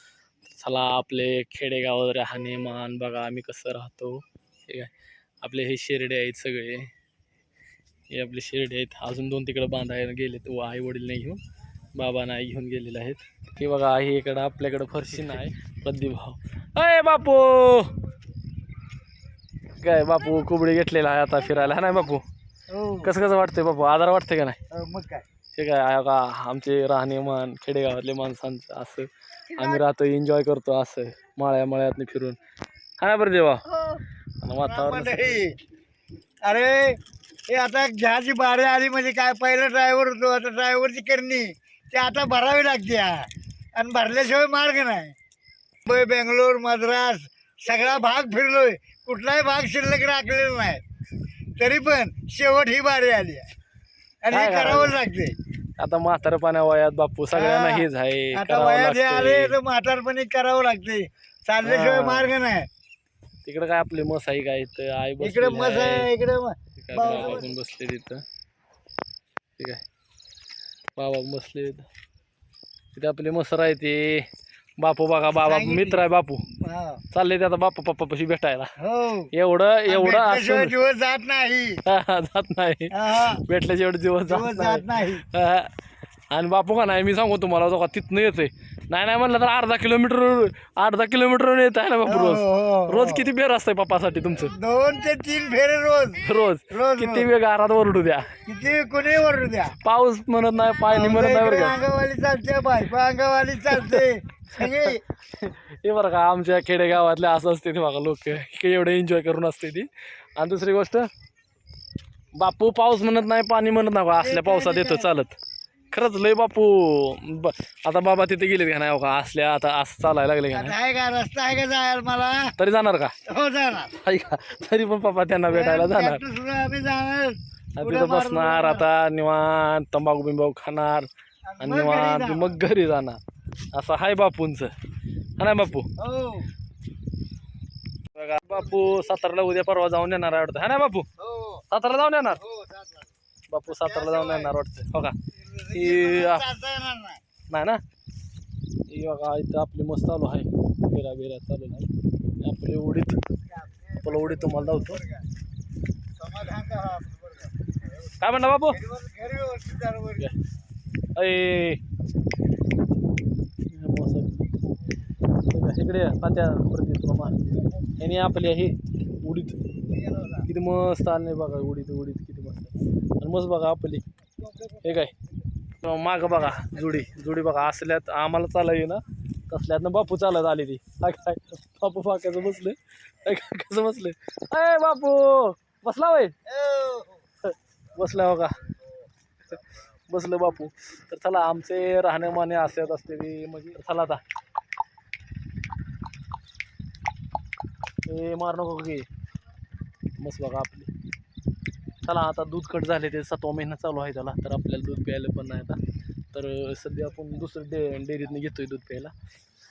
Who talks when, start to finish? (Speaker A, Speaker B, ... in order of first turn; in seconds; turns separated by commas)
Speaker A: 0.4-4.9, Speaker A: 5.4-6.9, Speaker A: 8.1-11.4, Speaker A: 12.0-18.0, Speaker A: 19.8-22.2, Speaker B: 22.7-23.1, Speaker A: 23.0-24.6, Speaker B: 24.7-25.2, Speaker A: 25.5-32.4, Speaker A: 33.0-35.4, Speaker B: 34.6-35.5, Speaker B: 36.5-37.0, Speaker B: 37.5-45.1, Speaker B: 45.9-50.8, Speaker B: 51.6-53.5, Speaker B: 54.2-55.4, Speaker A: 54.3-55.0, Speaker A: 55.8-59.5, Speaker B: 57.3-62.7, Speaker A: 61.6-62.3, Speaker A: 63.4-66.1, Speaker B: 65.2-67.5, Speaker A: 66.8-68.2, Speaker A: 71.0-71.9, Speaker A: 72.9-74.3, Speaker A: 74.8-76.4, Speaker B: 75.5-77.0, Speaker A: 77.1-78.7, Speaker B: 78.8-79.3, Speaker A: 79.3-80.7, Speaker B: 79.9-81.8, Speaker A: 81.8-85.7, Speaker B: 82.9-83.4, Speaker B: 84.3-85.2, Speaker A: 86.3-94.5, Speaker B: 92.1-93.3, Speaker B: 94.4-97.3, Speaker A: 96.2-98.3, Speaker B: 98.5-99.8, Speaker A: 99.8-101.8, Speaker B: 100.9-105.0, Speaker A: 103.7-104.0, Speaker A: 104.6-111.1, Speaker A: 112.4-115.4, Speaker B: 114.2-115.1, Speaker A: 115.9-120.8, Speaker B: 120.5-122.5, Speaker A: 122.6-123.2, Speaker B: 123.3-123.9, Speaker A: 124.0-126.2, Speaker B: 125.5-128.9, Speaker A: 127.8-131.1, Speaker B: 131.5-132.6, Speaker A: 131.6-133.2, Speaker A: 133.7-134.7, Speaker A: 135.4-135.9, Speaker B: 136.0-136.5, Speaker A: 138.2-141.1, Speaker B: 141.2-141.6, Speaker A: 141.7-142.4, Speaker B: 142.4-143.1, Speaker A: 143.5-145.2, Speaker B: 143.7-144.5, Speaker B: 145.4-147.2, Speaker A: 145.7-146.4, Speaker A: 147.5-147.8, Speaker A: 148.9-153.2, Speaker B: 153.5-155.2, Speaker A: 154.0-155.0, Speaker B: 156.2-157.8, Speaker A: 158.2-158.8, Speaker B: 158.7-160.3, Speaker A: 161.2-161.8, Speaker A: 163.7-164.5, Speaker A: 165.5-167.4, Speaker A: 168.0-169.6, Speaker B: 169.9-170.5, Speaker A: 170.5-174.1, Speaker B: 174.4-175.1, Speaker A: 174.8-175.1, Speaker A: 175.8-186.4, Speaker B: 186.5-187.2, Speaker A: 187.5-188.6, Speaker A: 190.1-194.2, Speaker A: 198.1-199.1, Speaker A: 200.2-200.9, Speaker A: 202.1-205.8, Speaker A: 206.3-209.1